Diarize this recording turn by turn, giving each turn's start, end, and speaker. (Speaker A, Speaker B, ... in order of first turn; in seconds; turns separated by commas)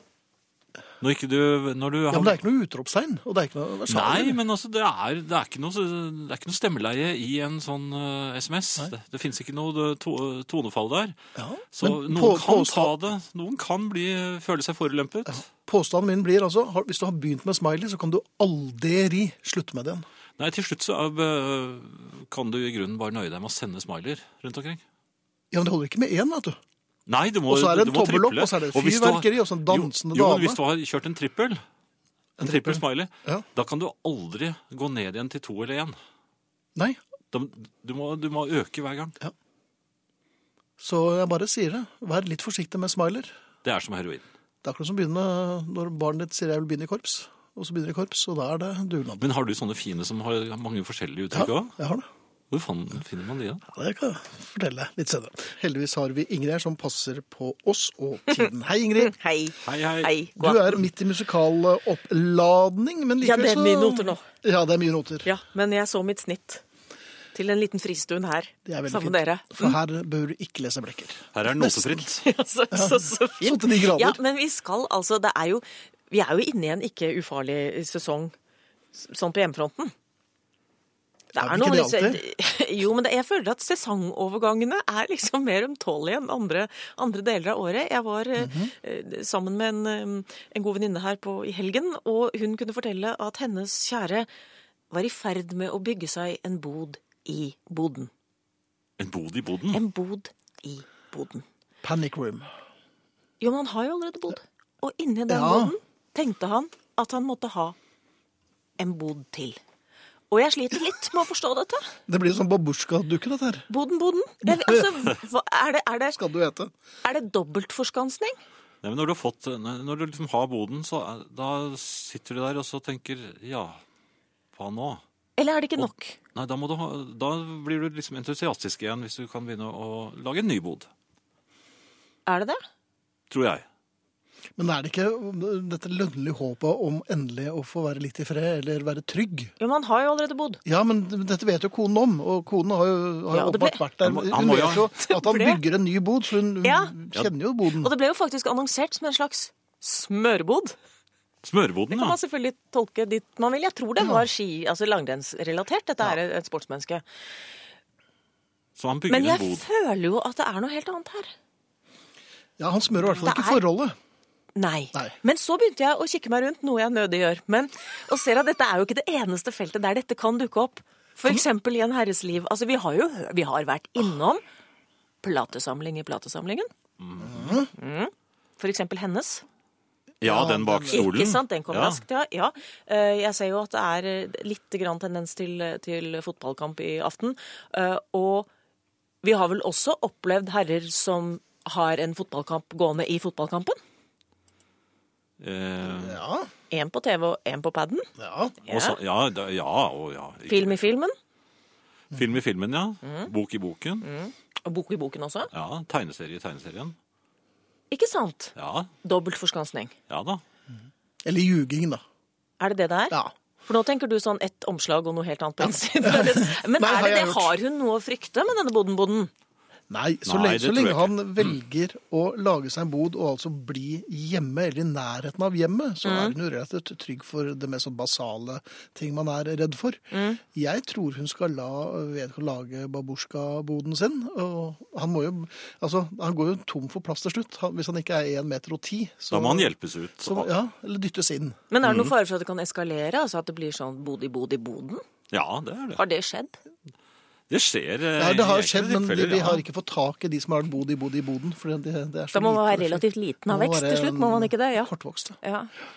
Speaker A: 1.0-2.4, Speaker B: 2.1-4.4, Speaker A: 3.9-11.2, Speaker B: 11.3-12.9, Speaker A: 11.7-15.4, Speaker B: 15.3-20.0, Speaker A: 20.4-24.8, Speaker B: 25.5-26.6, Speaker A: 27.1-31.6, Speaker B: 27.5-30.6, Speaker B: 32.4-33.4, Speaker A: 32.4-36.0, Speaker A: 37.3-39.1, Speaker B: 40.8-43.3, Speaker A: 43.6-44.3, Speaker B: 44.6-49.2, Speaker A: 49.2-51.8, Speaker B: 51.3-52.0, Speaker A: 52.5-53.6, Speaker B: 53.6-59.1, Speaker C: 59.0-60.8, Speaker A: 59.6-60.1, Speaker B: 60.4-65.3, Speaker C: 63.2-64.2, Speaker C: 65.2-66.6, Speaker C: 67.3-69.7, Speaker B: 68.6-72.0, Speaker A: 71.3-72.2, Speaker C: 72.2-78.3, Speaker B: 72.7-74.2, Speaker C: 78.9-79.9, Speaker C: 81.3-94.3, Speaker B: 81.4-82.2, Speaker B: 88.4-88.7, Speaker C: 94.9-98.1, Speaker A: 99.0-99.8, Speaker C: 99.7-101.4, Speaker B: 101.8-102.5, Speaker C: 103.4-107.8, Speaker B: 105.3-105.7, Speaker C: 108.8-109.6, Speaker C: 110.3-111.9, Speaker B: 112.1-113.7, Speaker C: 113.7-116.2, Speaker B: 114.5-114.8, Speaker B: 116.2-116.7, Speaker C: 117.0-118.3, Speaker A: 118.8-123.8, Speaker A: 124.5-125.0, Speaker C: 125.4-126.2, Speaker A: 125.8-130.9, Speaker C: 132.2-132.6, Speaker A: 133.3-133.7, Speaker B: 134.6-139.5, Speaker C: 139.6-140.6, Speaker B: 140.6-147.9, Speaker C: 143.3-143.8, Speaker A: 144.0-144.9, Speaker C: 144.8-145.6, Speaker C: 146.6-146.9, Speaker C: 147.8-150.8, Speaker A: 151.4-152.2, Speaker C: 151.9-157.0, Speaker B: 154.0-154.2, Speaker A: 158.8-159.6, Speaker C: 159.1-161.3, Speaker B: 162.6-163.9, Speaker C: 163.2-163.6, Speaker C: 164.6-174.4, Speaker C: 175.2-176.7, Speaker A: 177.0-177.5, Speaker B: 177.2-177.7, Speaker C: 177.7-179.4, Speaker B: 180.2-181.1, Speaker A: 180.2-182.0, Speaker C: 180.9-188.5, Speaker C: 189.2-193.8, Speaker A: 195.4-196.2, Speaker B: 195.9-196.5, Speaker C: 196.7-198.1, Speaker B: 198.2-198.5, Speaker C: 198.6-198.9, Speaker A: 198.7-200.9, Speaker C: 200.5-201.1, Speaker A: 202.1-204.1, Speaker C: 203.0-203.3, Speaker C: 204.0-205.5, Speaker A: 205.5-206.9, Speaker C: 207.9-209.9, Speaker A: 208.6-208.9, Speaker A: 210.1-210.4, Speaker B: 211.2-212.0, Speaker C: 212.6-219.3, Speaker B: 215.6-217.5, Speaker B: 219.9-241.6, Speaker A: 220.2-221.6, Speaker C: 226.0-226.3, Speaker C: 230.1-230.4, Speaker A: 239.3-240.5, Speaker C: 241.7-245.0, Speaker A: 241.8-242.1, Speaker A: 245.3-246.0, Speaker C: 246.0-246.6, Speaker A: 247.5-249.6, Speaker B: 248.2-255.4, Speaker C: 252.3-254.9, Speaker C: 255.4-255.7